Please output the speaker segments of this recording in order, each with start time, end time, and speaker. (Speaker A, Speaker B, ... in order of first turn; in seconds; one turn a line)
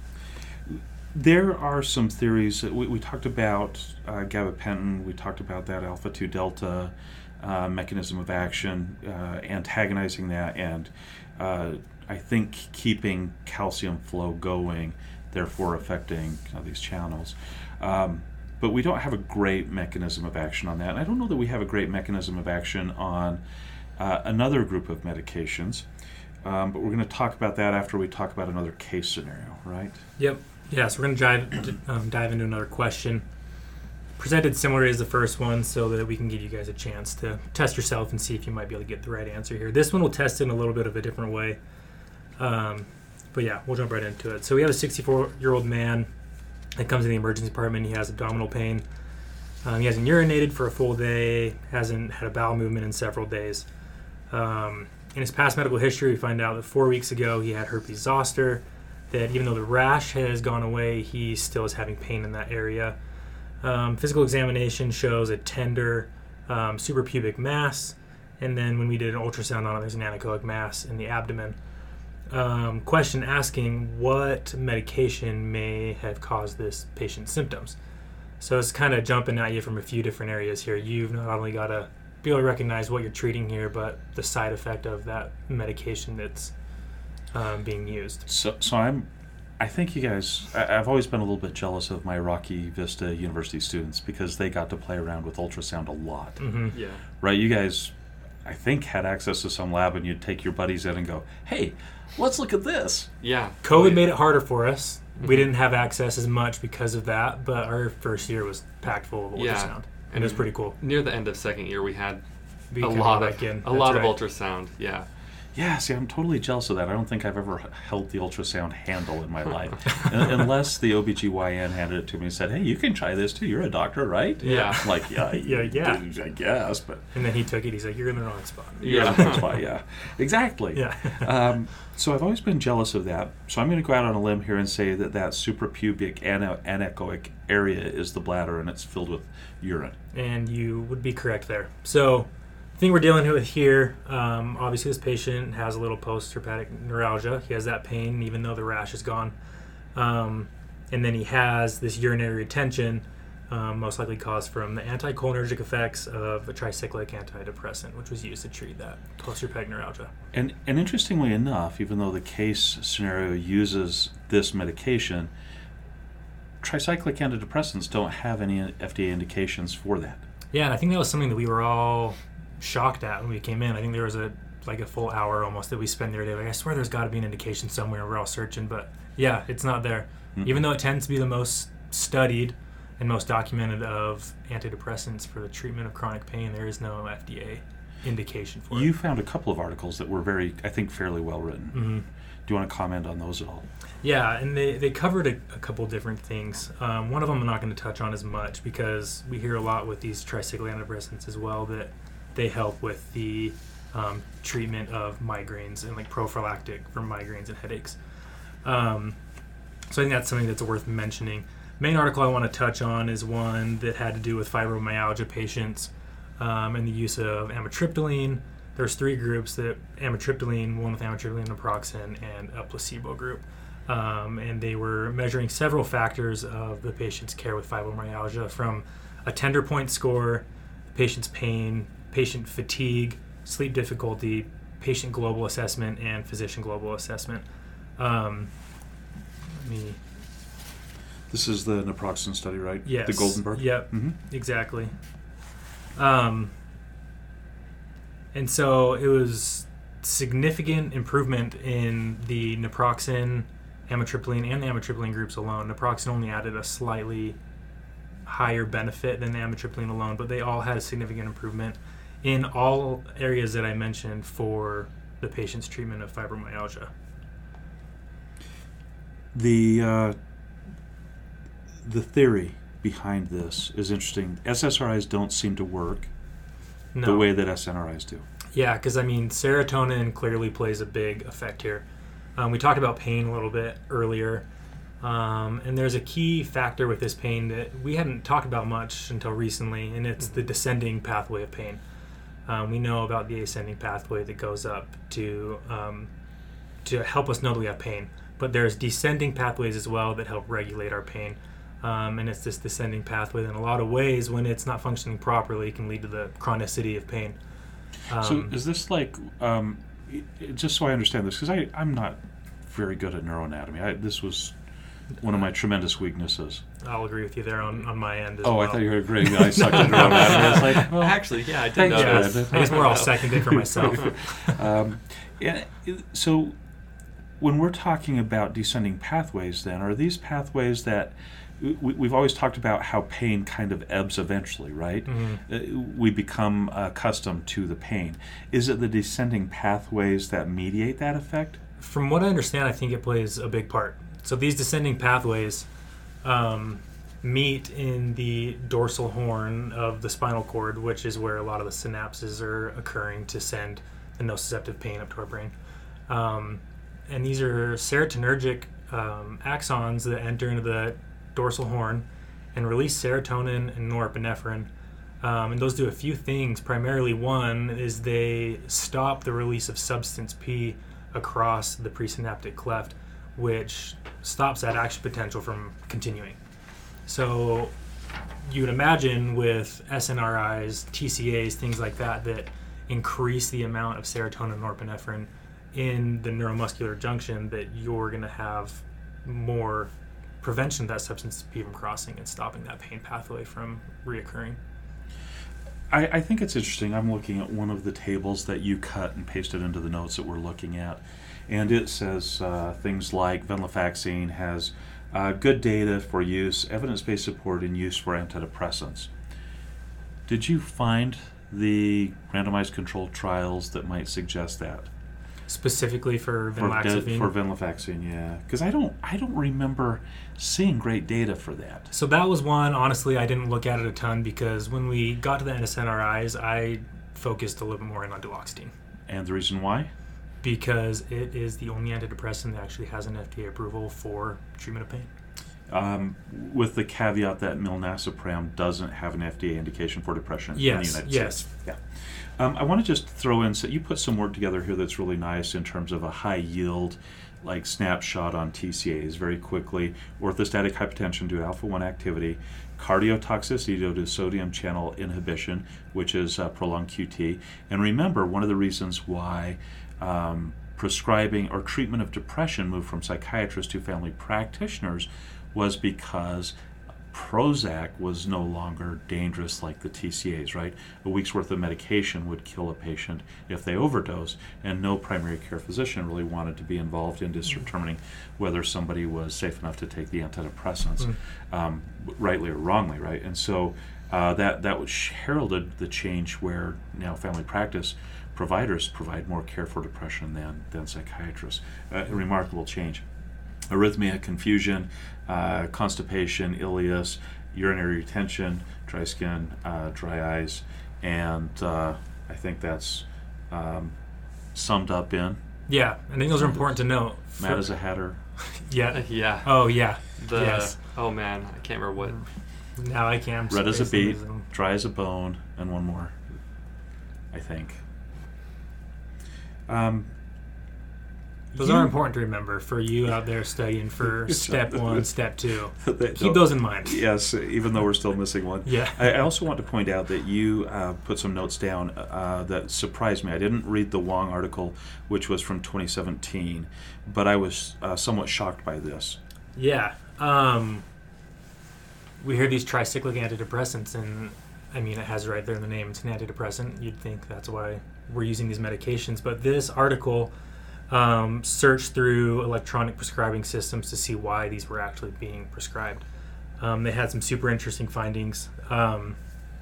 Speaker A: 0.7-23.4
Speaker A: 24.0-25.9
Speaker A: 26.4-30.0
Speaker B: 30.2-33.2
Speaker B: 34.2-41.6
Speaker B: 42.4-46.1
Speaker B: 46.7-48.8
Speaker B: 49.6-53.6
Speaker B: 54.3-63.0
Speaker B: 63.6-71.6
Speaker B: 72.3-77.8
Speaker B: 78.4-86.5
Speaker B: 87.3-88.3
Speaker A: 88.3-89.1
Speaker A: 89.6-103.1
Speaker B: 96.4-96.8
Speaker C: 96.7-97.0
Speaker C: 103.2-104.1
Speaker B: 103.6-110.8
Speaker C: 105.2-105.5
Speaker C: 109.3-112.2
Speaker B: 112.7-114.2
Speaker C: 112.8-115.1
Speaker A: 115.5-127.0
Speaker C: 124.4-124.8
Speaker B: 124.4-126.0
Speaker B: 127.1-129.5
Speaker C: 128.8-129.4
Speaker A: 128.8-139.9
Speaker B: 130.7-131.3
Speaker B: 140.1-149.3
Speaker B: 149.9-160.1
Speaker A: 160.3-165.3
Speaker A: 166.6-170.2
Speaker B: 170.5-188.9
Speaker A: 180.3-180.7
Speaker A: 188.7-191.9
Speaker B: 191.7-192.1
Speaker A: 192.4-193.7
Speaker B: 194.0-208.0
Speaker B: 208.6-209.2
Speaker B: 209.9-238.5
Speaker B: 239.5-240.0
Speaker A: 241.3-244.2
Speaker B: 242.8-244.9
Speaker B: 245.9-246.5
Speaker B: 248.3-257.4
Speaker B: 258.2-266.9
Speaker A: 269.3-270.1
Speaker A: 271.8-276.1
Speaker B: 276.9-277.3
Speaker A: 277.0-278.2
Speaker B: 278.5-281.8
Speaker B: 282.4-284.4
Speaker B: 285.0-291.8
Speaker B: 292.5-296.1
Speaker B: 296.8-307.4
Speaker B: 308.1-308.6
Speaker A: 308.2-314.6
Speaker A: 315.2-316.6
Speaker B: 316.8-320.9
Speaker A: 318.4-326.6
Speaker C: 319.7-324.1
Speaker B: 321.8-324.4
Speaker A: 327.4-341.6
Speaker B: 335.1-335.4
Speaker B: 341.8-345.7
Speaker B: 346.2-355.5
Speaker B: 356.1-364.7
Speaker B: 365.2-376.4
Speaker B: 377.1-377.7
Speaker B: 378.4-394.6
Speaker A: 395.9-409.1
Speaker A: 410.3-414.9
Speaker B: 415.5-417.3
Speaker A: 416.6-421.9
Speaker B: 421.9-428.7
Speaker A: 429.1-429.9
Speaker B: 430.4-435.1
Speaker A: 435.7-466.5
Speaker B: 440.6-441.4
Speaker A: 467.1-493.0
Speaker A: 493.7-503.9
Speaker A: 504.5-505.4
Speaker B: 505.7-507.7
Speaker A: 507.4-508.2
Speaker B: 508.4-510.8
Speaker C: 508.9-512.2
Speaker B: 512.1-514.5
Speaker A: 513.5-516.1
Speaker A: 517.3-517.8
Speaker A: 519.7-520.1
Speaker A: 521.5-521.9
Speaker B: 521.5-527.0
Speaker A: 524.0-525.1
Speaker A: 525.8-539.2
Speaker B: 528.6-529.2
Speaker B: 539.5-540.8
Speaker B: 542.2-550.3
Speaker B: 550.9-556.0
Speaker B: 556.6-559.2